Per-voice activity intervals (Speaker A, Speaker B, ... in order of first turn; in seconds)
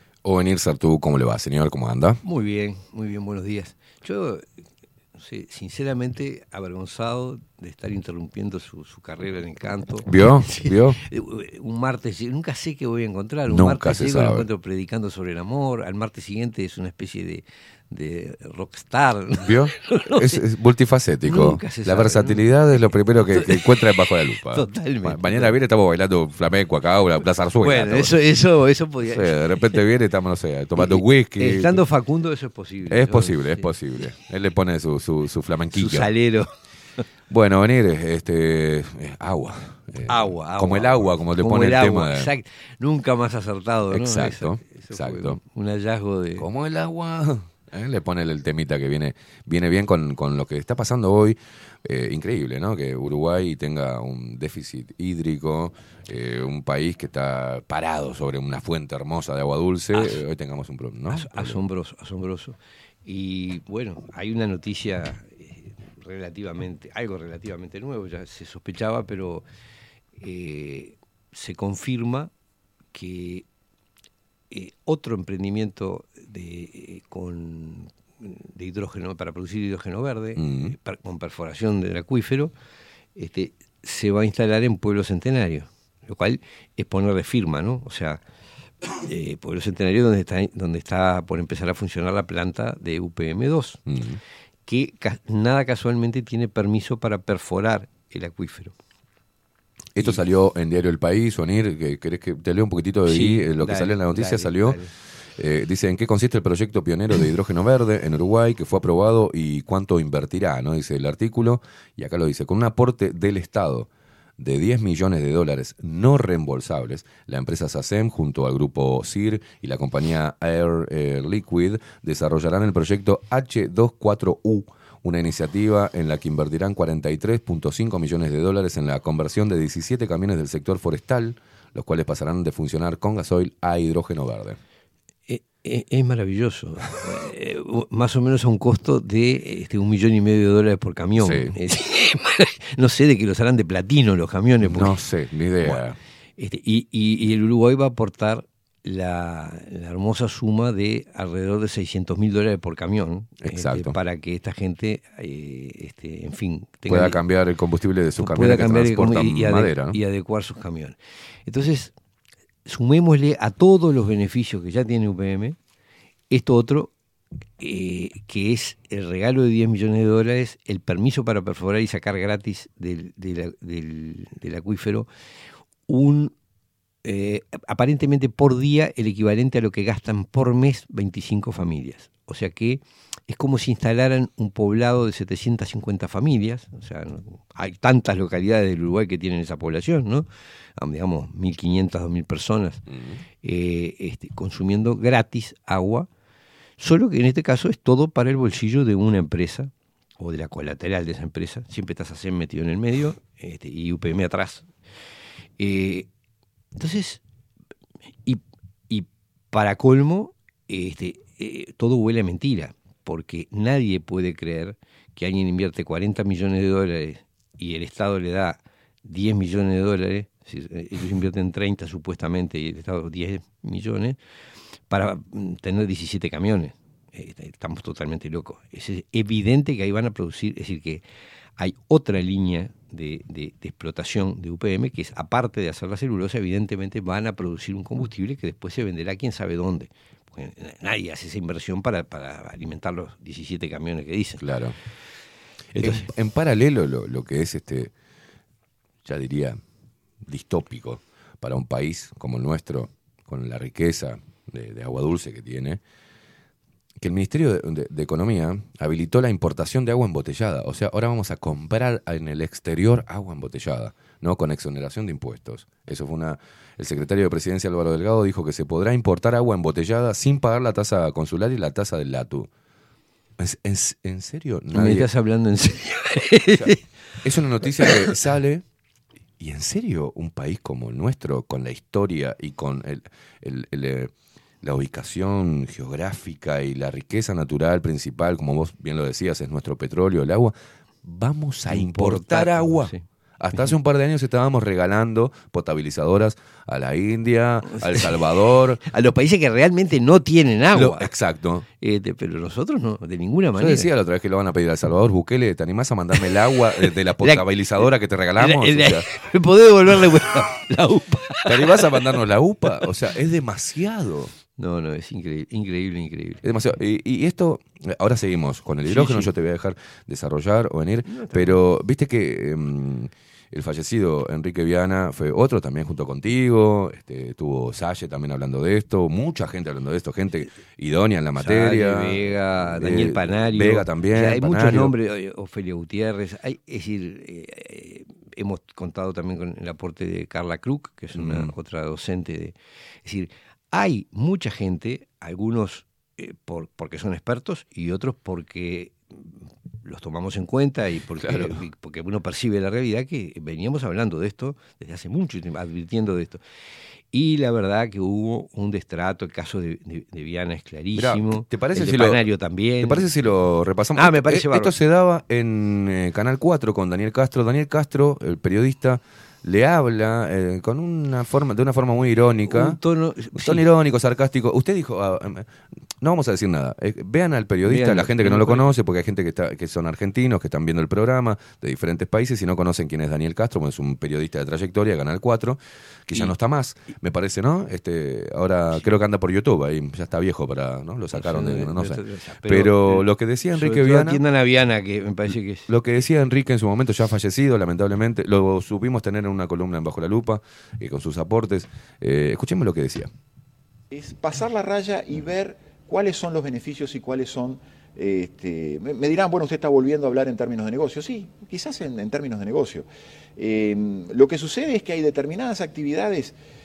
Speaker A: 0.2-2.2, 10.1-11.0, 13.5-14.5, 19.4-28.1, 29.0-31.8, 32.9-36.1, 37.3-42.3, 43.9-45.4, 46.4-61.6, 80.3-80.8, 93.9-94.2, 100.0-104.8, 105.4-134.6, 141.2-141.5, 144.6-146.0, 153.4-153.9, 156.9-160.0, 192.9-193.2, 244.4-244.8, 245.8-247.9, 249.0-249.6, 250.2-255.8, 257.0-272.5, 273.4-275.1, 276.5-278.6, 279.4-298.8, 300.7-301.6, 303.6-309.0, 311.4-314.3, 316.4-334.9, 341.1-341.5, 351.2-351.6, 360.9-362.2, 362.8-372.8, 373.3-375.5, 376.0-394.2, 395.7-403.1
Speaker B: 2.2-4.5, 5.1-20.4, 21.2-25.6, 27.6-29.8, 30.8-33.7, 35.7-36.5, 40.1-46.5, 59.9-60.2, 61.1-69.4, 70.2-72.3, 72.9-73.4, 74.5-82.5, 83.2-88.2, 89.0-93.8, 94.7-98.7, 100.0-100.2, 103.0-104.9, 135.3-145.0, 145.6-157.2, 158.2-161.9, 162.7-165.6, 166.3-166.9, 167.6-175.1, 175.9-176.3, 177.0-190.3, 190.8-192.8, 193.4-196.1, 196.8-204.7, 205.6-206.1, 206.7-207.2, 208.2-224.2, 224.9-231.0, 231.6-244.4, 245.8-246.1, 274.7-276.8, 277.8-278.1, 291.7-293.0, 298.8-301.1, 301.8-303.9, 307.2-312.1, 314.6-316.4, 318.8-319.3, 321.0-321.6, 331.4-356.4, 357.1-363.1, 363.9-364.7, 372.4-373.6, 377.6-378.7, 391.1-395.7
Speaker C: 403.9-412.9, 413.4-416.3